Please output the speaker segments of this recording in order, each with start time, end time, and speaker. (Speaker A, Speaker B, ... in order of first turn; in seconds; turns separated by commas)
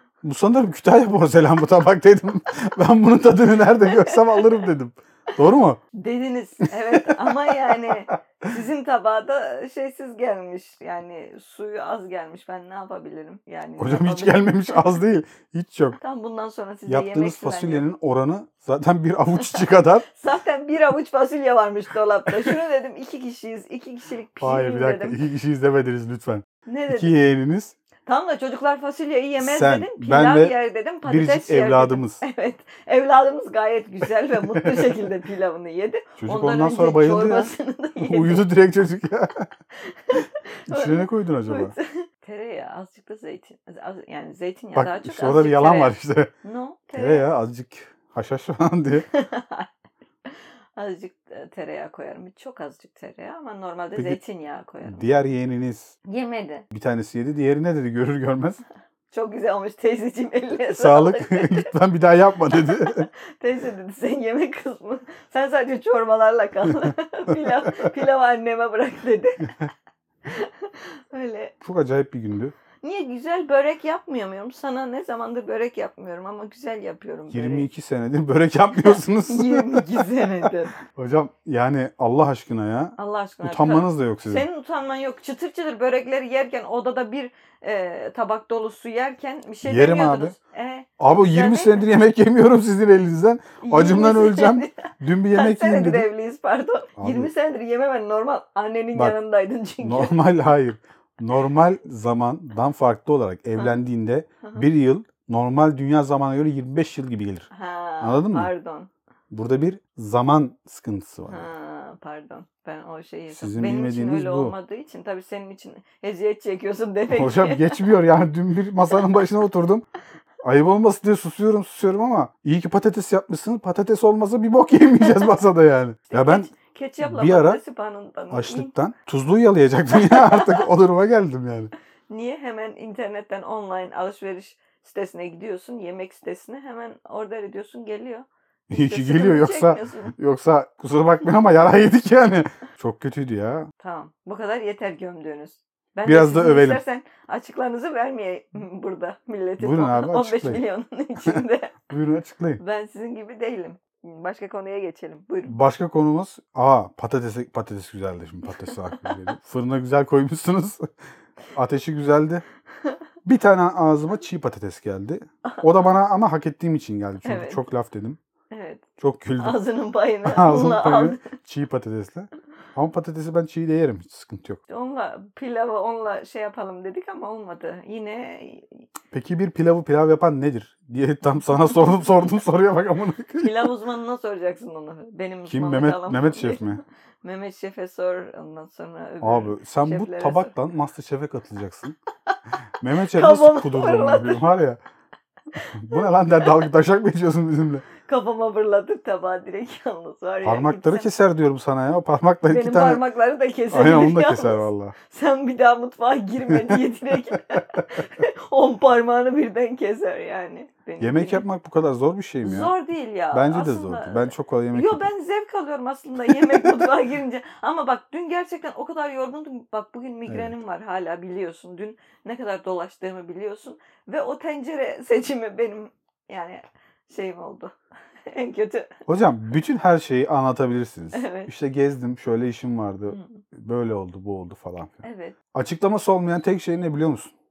Speaker A: 0.2-5.8, Speaker B: 3.7-4.7, Speaker B: 6.0-15.0, Speaker A: 6.7-8.0, Speaker A: 13.8-16.0, Speaker B: 16.0-17.9, Speaker A: 16.9-20.1, Speaker B: 20.1-25.2, Speaker A: 24.4-27.8, Speaker B: 26.7-27.1, Speaker B: 28.1-38.5, Speaker A: 29.4-32.2, Speaker A: 34.5-34.9, Speaker A: 36.2-39.5, Speaker B: 39.8-47.3, Speaker A: 40.7-41.8, Speaker A: 44.8-46.3, Speaker A: 47.0-49.1, Speaker B: 49.1-49.7, Speaker B: 50.8-55.2, Speaker A: 54.8-56.0, Speaker B: 56.0-56.6, Speaker A: 56.7-58.6, Speaker B: 59.1-61.7, Speaker A: 60.7-63.1, Speaker B: 62.5-69.6, Speaker A: 66.7-67.9, Speaker B: 70.3-71.5, Speaker A: 71.6-72.5, Speaker B: 72.8-77.7, Speaker A: 77.3-80.3, Speaker B: 78.8-80.8, Speaker A: 80.9-84.5, Speaker B: 83.0-91.9, Speaker A: 89.6-90.4, Speaker A: 91.0-96.1, Speaker B: 93.6-100.2, Speaker A: 97.0-97.3, Speaker A: 99.8-107.5, Speaker B: 103.6-103.8, Speaker B: 107.5-108.9, Speaker A: 108.0-108.5, Speaker A: 109.3-111.5, Speaker B: 111.3-118.0, Speaker A: 113.3-114.5, Speaker A: 117.1-119.8, Speaker A: 120.4-127.6, Speaker B: 125.0-125.4, Speaker B: 126.1-128.7, Speaker A: 128.3-131.7, Speaker B: 129.9-130.7, Speaker B: 132.1-140.2, Speaker A: 138.7-143.7, Speaker B: 143.8-151.8, Speaker A: 146.1-146.8, Speaker A: 149.6-150.6, Speaker A: 151.2-152.6, Speaker B: 152.6-155.6, Speaker A: 155.5-160.9, Speaker B: 158.5-159.2, Speaker A: 161.5-162.4, Speaker A: 163.2-168.2, Speaker B: 167.2-167.6, Speaker B: 168.5-168.8, Speaker A: 169.0-169.6, Speaker B: 169.4-171.3, Speaker A: 170.2-174.6, Speaker B: 174.7-178.9, Speaker A: 179.1-183.7, Speaker B: 183.4-190.5, Speaker A: 185.5-186.8, Speaker A: 189.2-192.0, Speaker A: 192.8-194.8, Speaker B: 193.0-194.6, Speaker B: 195.6-196.5, Speaker A: 195.6-197.9, Speaker B: 198.0-201.1, Speaker A: 200.4-203.1, Speaker B: 202.5-211.4, Speaker A: 203.7-204.9, Speaker A: 206.5-207.6, Speaker A: 211.0-212.7, Speaker B: 212.4-227.7, Speaker A: 213.3-215.1, Speaker A: 216.2-216.9, Speaker A: 220.3-220.6, Speaker B: 228.3-229.0, Speaker A: 229.1-237.3, Speaker B: 231.1-231.5, Speaker B: 233.1-233.4, Speaker B: 235.0-235.4